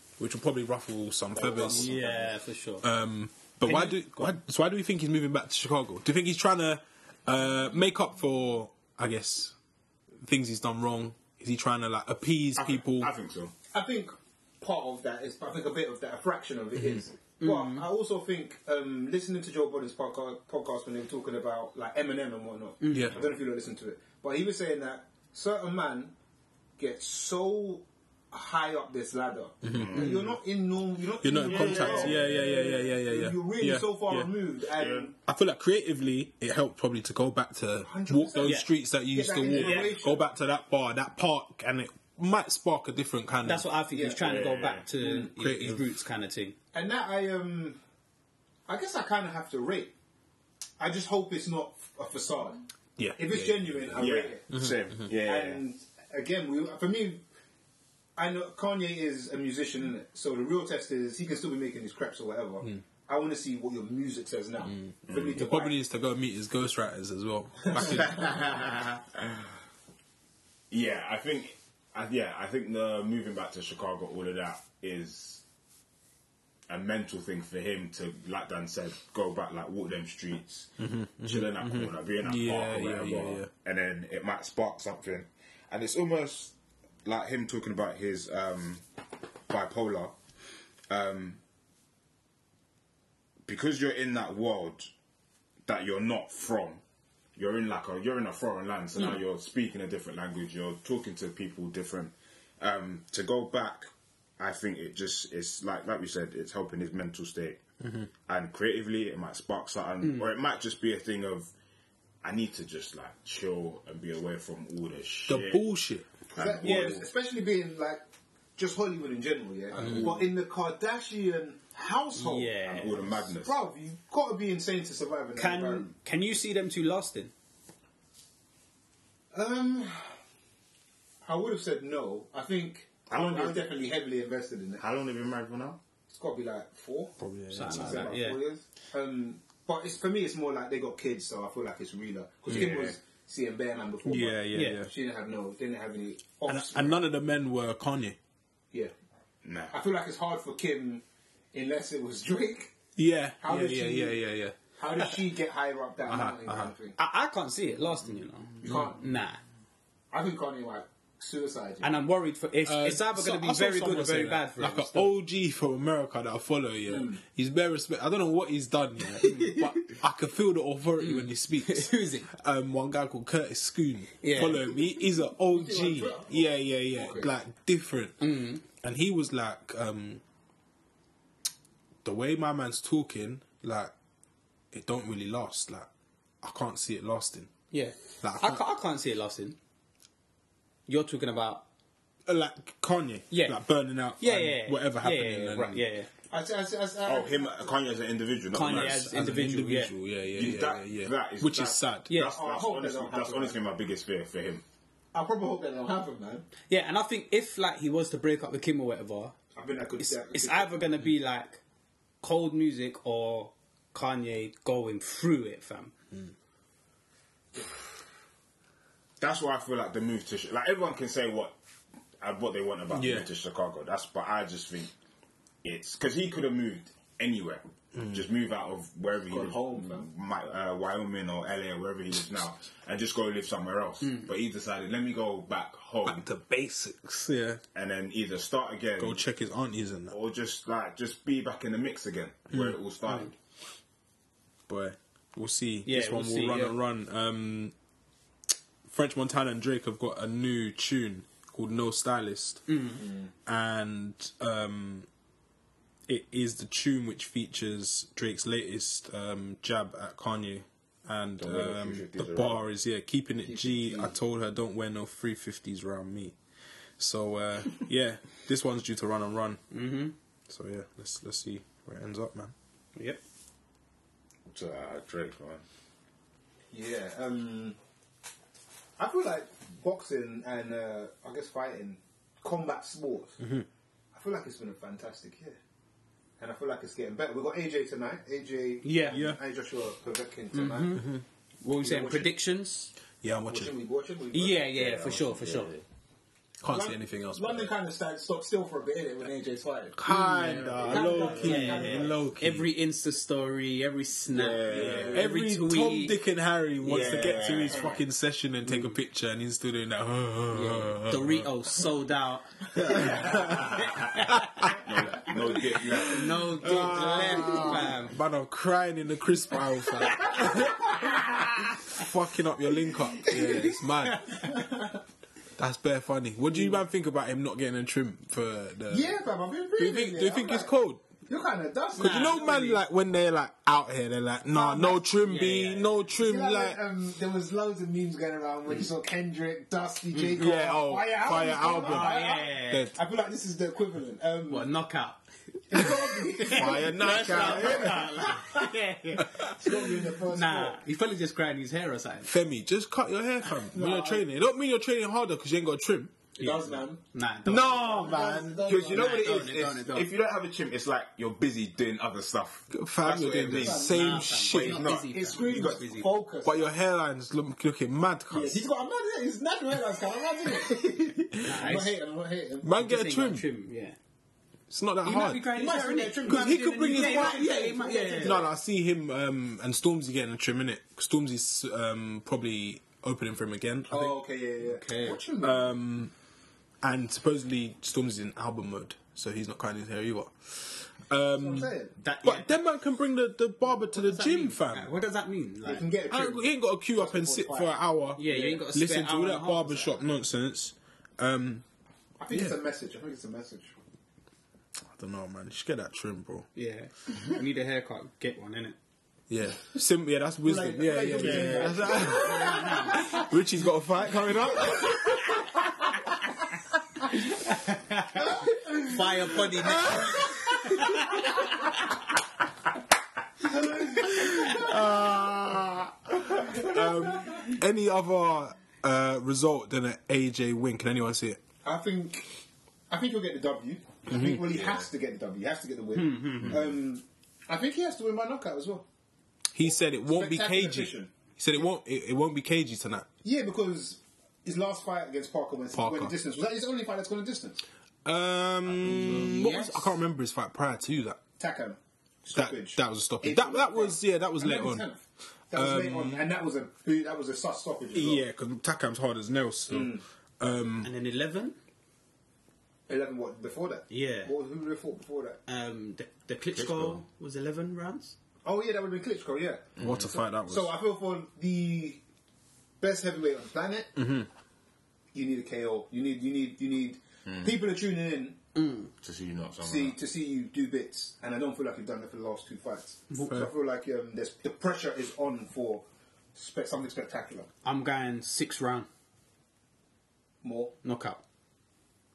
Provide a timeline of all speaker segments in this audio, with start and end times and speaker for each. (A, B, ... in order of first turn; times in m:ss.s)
0:00.2-0:02.0 A
0:01.4-0:02.2 B
0:01.4-0:02.2 C
0:01.6-0:02.8 D
0:02.8-0:09.5 A
0:03.6-0:04.4 D
0:10.2-0:13.1 A
0:12.6-0:13.5 C
0:13.7-0:26.1 B
0:16.8-0:17.0 A
0:17.4-0:17.8 D
0:22.8-0:23.1 D
0:22.9-0:23.2 A
0:26.8-0:35.2 B
0:29.6-0:30.2 A
0:29.7-0:30.3 C
0:31.2-0:34.3 A
0:31.4-0:32.4 C
0:34.8-0:35.1 C
0:35.3-0:43.7 A
0:37.8-0:40.2 B
0:38.4-0:38.7 D
0:39.5-0:39.8 C
0:43.4-0:46.6 D
0:43.9-0:45.3 B
0:44.2-0:44.9 C
0:45.4-0:45.9 A
0:46.7-0:47.8 B
0:48.7-0:49.9 B
0:50.8-0:52.6 B
0:53.0-0:55.1 A
0:53.2-0:54.5 B
0:53.9-0:55.6 C
0:55.1-0:57.2 B
0:58.2-1:05.8 B
1:04.7-1:08.4 A
1:05.1-1:05.4 C
1:07.7-1:08.5 B
1:08.1-1:09.4 C
1:10.7-1:15.4 C
1:16.7-1:20.7 C
1:20.8-1:23.5 A
1:21.2-1:28.8 C
1:29.5-1:30.2 C
1:30.9-1:31.4 C
1:33.4-1:34.9 C
1:35.6-1:36.8 C
1:37.4-1:47.6 C
1:47.8-1:48.1 A
1:48.2-1:51.5 C
1:50.0-1:50.3 D
1:52.2-1:55.6 C
1:55.3-1:56.1 A
1:56.3-1:57.1 C
1:56.3-1:58.0 B
1:56.6-1:57.0 D
1:58.6-2:05.9 B
1:59.7-2:00.2 C
2:02.1-2:03.0 D
2:02.6-2:03.6 C
2:05.4-2:07.3 D
2:09.3-2:10.2 B
2:11.2-2:14.8 B
2:13.1-2:13.8 C
2:14.8-2:15.8 C
2:16.1-2:27.1 B
2:17.2-2:18.2 A
2:17.5-2:18.4 D
2:22.5-2:23.0 C
2:24.0-2:24.9 A
2:24.5-2:24.8 D
2:26.5-2:28.2 A
2:29.4-2:29.8 C
2:29.7-2:32.7 B
2:33.0-2:35.2 A
2:33.4-2:34.2 B
2:34.8-2:37.0 B
2:36.1-2:36.7 A
2:37.0-2:39.4 D
2:38.6-2:39.0 B
2:40.1-2:41.9 B
2:41.8-2:45.1 D
2:42.6-2:58.2 A
2:46.9-2:47.2 B
2:49.2-2:49.8 D
2:51.0-2:52.3 D
2:54.2-2:54.7 D
2:55.5-2:57.3 B
2:58.2-2:58.6 D
2:58.8-3:00.2 A
3:02.0-3:03.9 A
3:04.7-3:05.9 A
3:06.4-3:07.5 A
3:07.7-3:09.6 D
3:08.2-3:08.6 A
3:10.9-3:11.6 D
3:12.3-3:15.9 A
3:13.3-3:13.6 D
3:14.2-3:16.1 D
3:16.3-3:17.7 B
3:17.0-3:19.0 C
3:18.5-3:19.9 D
3:18.6-3:22.1 A
3:20.3-3:24.6 C
3:22.1-3:22.4 D
3:22.2-3:23.6 B
3:25.1-3:26.5 B
3:26.7-3:29.4 D
3:29.5-3:30.8 B
3:30.0-3:31.6 D
3:32.2-3:35.9 D
3:39.2-3:41.6 C
3:42.2-3:44.9 C
3:42.9-3:43.3 A
3:45.6-3:56.2 C
3:47.9-3:48.2 A
3:49.3-3:50.1 B
3:56.0-3:57.6 A
3:57.7-3:59.2 C
3:59.0-4:00.2 A
4:00.1-4:03.3 C
4:04.7-4:07.7 A
4:05.8-4:06.8 D
4:08.8-4:12.7 A
4:12.7-4:13.0 D
4:13.0-4:13.3 B
4:13.4-4:15.1 A
4:16.1-4:26.4 A
4:21.4-4:22.6 C
4:23.4-4:24.1 B
4:27.0-4:29.6 A
4:29.7-4:30.1 D
4:30.5-4:32.5 A
4:34.5-4:35.6 C
4:36.7-4:37.8 B
4:39.0-4:43.4 B
4:43.4-4:43.6 A
4:44.1-4:45.6 B
4:46.4-4:51.0 B
4:48.8-4:49.2 D
4:49.1-4:49.4 A
4:50.5-4:52.9 D
4:51.0-4:51.2 A
4:51.8-4:52.4 B
4:53.2-4:53.7 A
4:53.4-4:54.7 B
4:54.3-4:55.7 D
4:54.7-4:55.8 C
4:56.6-4:57.7 A
4:56.6-5:00.0 B
5:00.0-5:02.7 A
5:00.1-5:06.2 D
5:00.8-5:02.3 B
5:04.3-5:05.2 C
5:04.7-5:05.2 B
5:04.7-5:11.5 A
5:06.8-5:08.0 C
5:06.8-5:07.5 D
5:10.5-5:14.4 D
5:12.8-5:13.8 A
5:13.0-5:14.1 C
5:14.4-5:15.2 A
5:14.8-5:16.8 C
5:16.0-5:18.2 D
5:16.5-5:21.2 A
5:21.9-5:24.5 A
5:24.3-5:25.0 B
5:25.6-5:29.2 A
5:28.9-5:30.7 B
5:29.8-5:31.0 A
5:31.3-5:32.8 B
5:32.0-5:32.8 D
5:32.0-5:36.8 A
5:34.5-5:35.1 B
5:35.2-5:35.9 D
5:36.1-5:44.7 B
5:40.1-5:40.4 D
5:40.4-5:43.0 A
5:41.8-5:42.9 D
5:44.5-5:49.8 D
5:45.7-5:48.7 B
5:46.5-5:47.9 A
5:46.5-5:47.9 C
5:49.4-5:50.8 B
5:50.3-5:52.3 D
5:52.2-5:56.2 A
5:53.7-5:54.2 B
5:56.4-5:57.0 B
5:56.4-5:58.2 D
5:57.4-5:58.6 A
5:57.6-5:59.1 B
5:58.6-6:05.8 C
5:58.7-6:00.1 D
6:02.7-6:04.8 A
6:03.5-6:06.7 B
6:03.8-6:06.1 D
6:06.4-6:08.6 A
6:08.3-6:12.7 B
6:11.4-6:11.9 D
6:12.6-6:13.4 A
6:12.7-6:14.0 D
6:14.7-6:15.5 A
6:15.0-6:18.4 D
6:15.5-6:18.5 B
6:16.2-6:17.6 A
6:18.2-6:24.2 A
6:23.9-6:25.8 B
6:24.6-6:25.2 D
6:25.4-6:26.1 A
6:26.8-6:34.9 A
6:31.4-6:31.9 B
6:32.0-6:32.5 D
6:33.9-6:35.8 D
6:35.6-6:38.6 B
6:36.1-6:41.6 A
6:38.2-6:40.0 D
6:42.2-6:43.7 B
6:42.3-6:42.6 A
6:44.9-6:46.5 A
6:46.5-6:48.8 D
6:49.3-6:55.4 A
6:50.4-6:53.2 B
6:51.3-6:53.2 D
6:57.2-7:01.4 D
6:59.8-7:00.3 A
7:03.6-7:04.7 B
7:03.9-7:11.4 A
7:06.4-7:07.4 B
7:11.6-7:12.3 B
7:12.9-7:18.8 B
7:14.1-7:14.4 A
7:14.5-7:14.9 C
7:15.9-7:16.6 D
7:19.5-7:23.1 A
7:19.6-7:21.6 B
7:23.2-7:27.6 B
7:25.7-7:26.1 A
7:28.0-7:31.2 A
7:28.7-7:29.3 C
7:29.2-7:29.9 D
7:31.4-7:38.2 B
7:32.3-7:34.8 A
7:35.5-7:36.2 A
7:37.9-7:40.9 A
7:39.7-7:40.0 B
7:40.8-7:41.6 D
7:42.9-7:45.4 B
7:43.9-7:44.3 D
7:45.5-7:48.2 D
7:46.5-7:47.0 C
7:48.4-7:52.0 B
7:49.8-7:50.1 C
7:49.8-7:50.7 A
7:52.8-7:53.9 B
7:54.0-7:54.3 A
7:55.1-7:58.4 B
7:57.3-7:57.5 C
7:58.5-7:58.9 D
7:59.0-8:00.0 C
7:59.6-8:07.5 B
8:07.6-8:08.9 D
8:10.4-8:10.7 B
8:10.8-8:11.2 D